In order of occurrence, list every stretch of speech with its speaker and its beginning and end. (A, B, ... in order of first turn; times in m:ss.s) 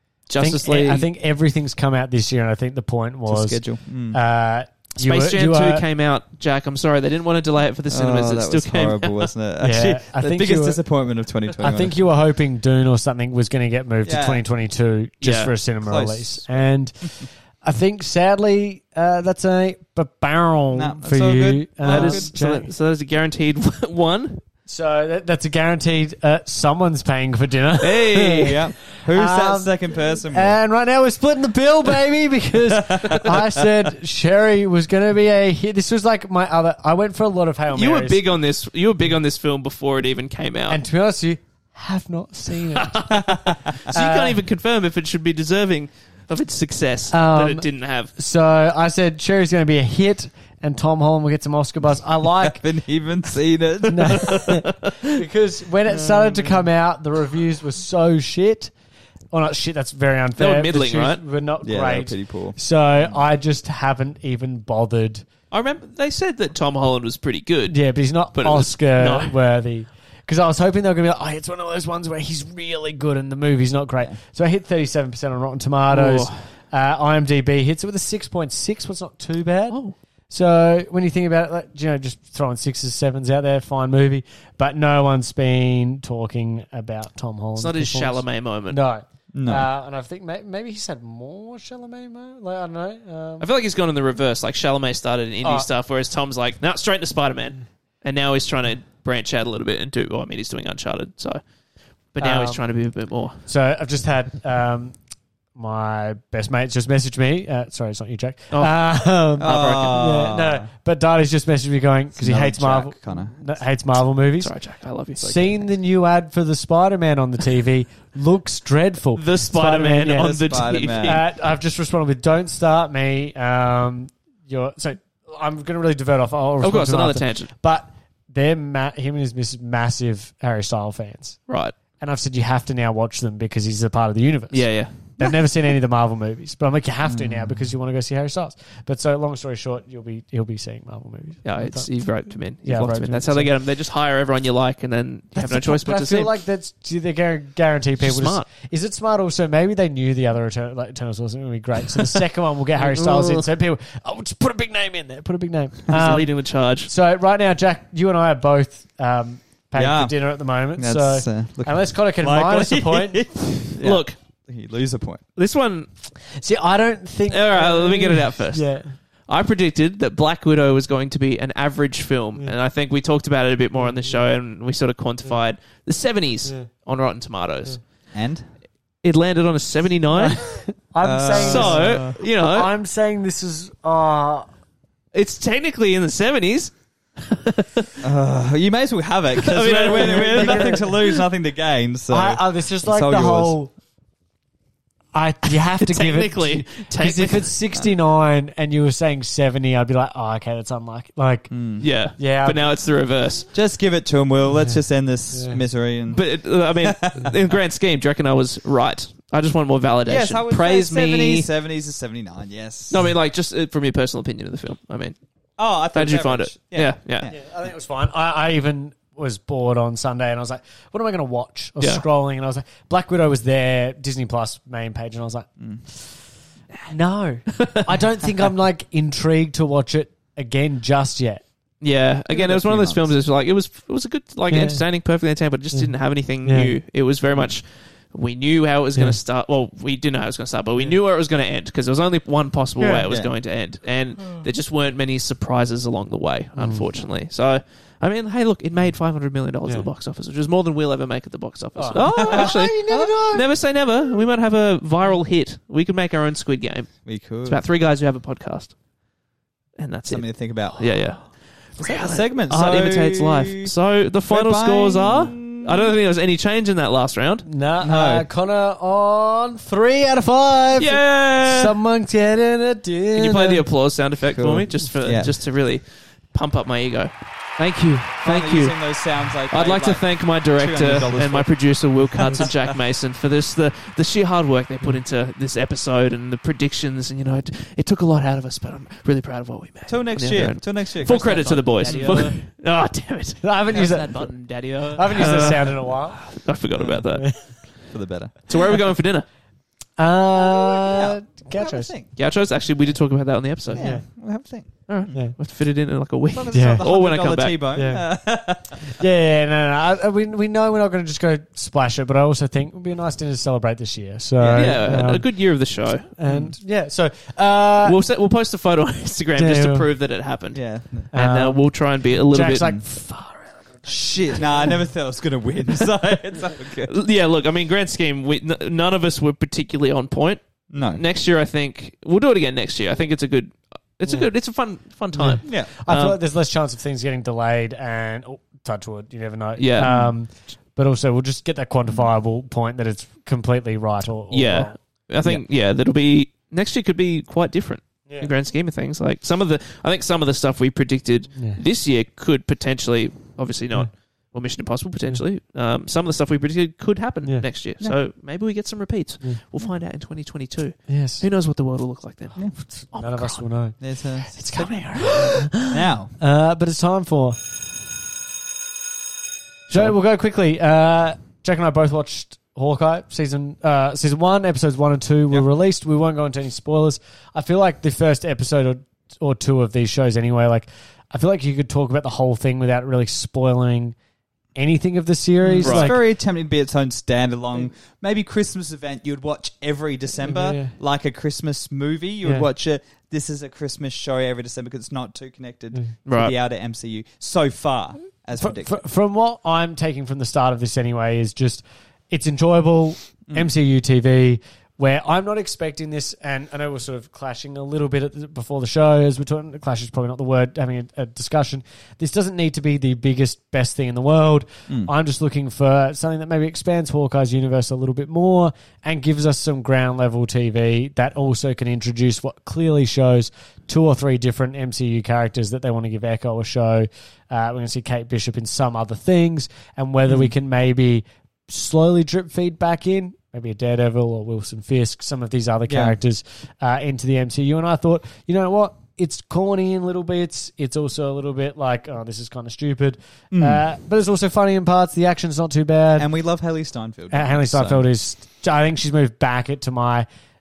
0:00.3-0:01.0 A
0:00.4-0:05.8 B
0:03.2-0:04.2 C
0:05.0-0:09.3 A
0:07.9-0:12.0 C
0:09.6-0:10.8 B
0:11.6-0:22.7 B
0:14.0-0:14.4 C
0:15.2-0:15.5 A
0:15.8-0:17.3 C
0:20.7-0:22.3 C
0:21.8-0:24.4 A
0:24.6-0:38.2 B
0:27.8-0:28.6 A
0:28.4-0:30.6 C
0:32.7-0:33.6 C
0:37.7-0:40.8 A
0:40.7-0:43.2 B
0:42.7-0:48.1 A
0:43.2-0:43.8 C
0:43.9-0:44.4 B
0:47.1-0:52.6 B
0:52.4-0:54.5 C
0:53.9-0:58.7 B
0:54.1-0:55.2 A
0:55.9-0:56.6 C
0:59.3-1:05.2 B
1:00.4-1:01.2 A
1:01.6-1:03.1 C
1:05.5-1:07.8 A
1:07.7-1:33.5 B
1:08.3-1:09.3 A
1:15.9-1:16.4 A
1:19.7-1:19.9 A
1:27.6-1:28.8 A
1:29.3-1:29.7 C
1:33.4-1:41.4 A
1:35.4-1:35.7 B
1:42.1-1:43.4 A
1:42.2-1:42.6 B
1:43.4-1:44.9 B
1:45.5-1:54.5 B
1:49.4-1:50.1 A
1:49.4-1:50.7 C
1:52.2-1:53.4 C
1:54.4-1:55.6 A
1:55.2-2:11.4 B
1:59.1-2:01.2 A
2:00.1-2:01.2 C
2:06.6-2:07.5 A
2:11.5-2:11.7 A
2:12.0-2:21.9 B
2:14.5-2:15.3 A
2:17.0-2:17.6 C
2:21.4-2:26.4 A
2:22.6-2:23.5 B
2:25.3-2:43.3 B
2:28.0-2:28.5 A
2:32.8-2:33.5 A
2:35.9-2:36.9 A
2:39.8-2:40.1 C
2:40.7-2:45.2 C
2:43.8-2:44.2 A
2:45.4-2:45.9 A
2:46.3-2:48.9 B
2:47.3-2:48.7 A
2:49.3-2:57.8 A
2:53.8-2:54.2 B
2:58.1-2:58.4 C
2:59.0-3:00.6 A
3:00.1-3:04.5 B
3:01.0-3:02.2 C
3:01.3-3:02.7 A
3:05.1-3:08.0 A
3:08.0-3:13.6 C
3:09.4-3:11.2 A
3:09.8-3:10.9 B
3:12.1-3:13.7 B
3:15.1-3:22.6 B
3:15.7-3:17.5 A
3:21.5-3:21.8 C
3:21.8-3:23.4 A
3:23.5-3:26.2 C
3:25.3-3:25.6 B
3:26.1-3:31.5 A
3:26.8-3:27.4 C
3:30.0-3:33.0 C
3:32.9-3:35.2 A
3:35.6-3:37.4 C
3:35.9-3:37.3 A
3:37.3-3:46.1 B
3:46.9-3:51.4 B
3:47.5-3:47.9 A
3:51.8-4:18.8 A
3:52.3-3:53.1 C
3:54.5-3:54.8 B
3:56.4-3:56.7 B
4:02.8-4:03.1 B
4:03.0-4:03.3 C
4:06.6-4:06.9 B
4:11.8-4:13.4 B
4:11.9-4:13.3 C
4:17.0-4:17.6 C
4:19.8-4:27.4 A
4:20.1-4:21.0 C
4:21.8-4:23.7 C
4:24.3-4:25.9 C
4:27.4-4:33.6 B
4:27.8-4:28.2 C
4:30.8-4:31.7 A
4:33.1-4:38.8 A
4:34.3-4:35.3 C
4:38.2-4:42.6 C
4:39.5-4:57.5 A
4:49.9-4:52.4 C
4:51.8-4:52.4 B
4:53.4-4:56.4 B
4:57.1-4:57.5 B
4:57.9-4:58.5 C
4:58.5-4:59.2 A
5:00.0-5:01.9 B
5:00.6-5:02.1 C
5:02.1-5:04.0 A
5:03.7-5:05.2 C
5:03.7-5:04.0 B
5:04.9-5:07.6 A
5:06.3-5:08.9 C
5:06.5-5:06.8 B
5:07.7-5:08.1 B
5:08.8-5:15.3 B
5:14.4-5:14.8 C
5:14.5-5:16.1 A
5:16.1-5:18.0 B
5:16.2-5:16.5 C
5:17.8-5:22.8 A
5:19.4-5:19.9 B
5:20.5-5:21.1 C
5:21.1-5:24.8 B
5:23.8-5:26.9 C
5:26.8-5:36.2 A
5:30.7-5:31.0 C
5:34.0-5:34.3 B
5:35.1-5:45.4 B
5:35.4-5:35.7 C
5:39.6-5:39.9 A
5:39.8-5:40.1 C
5:44.3-6:03.4 A
5:51.4-5:51.6 B
6:00.9-6:01.2 B
6:02.7-6:03.8 B
6:03.8-6:06.2 C
6:04.3-6:07.6 B
6:04.6-6:05.2 A
6:09.7-6:24.0 B
6:24.5-6:26.0 B
6:25.4-6:38.8 C
6:25.6-6:26.0 A
6:30.2-6:30.8 B
6:32.2-6:32.5 B
6:36.0-6:36.3 A
6:38.4-7:26.1 B
7:10.1-7:10.3 C
7:15.7-7:16.0 C
7:23.3-7:23.6 C
7:26.0-7:27.9 C
7:27.1-7:30.0 B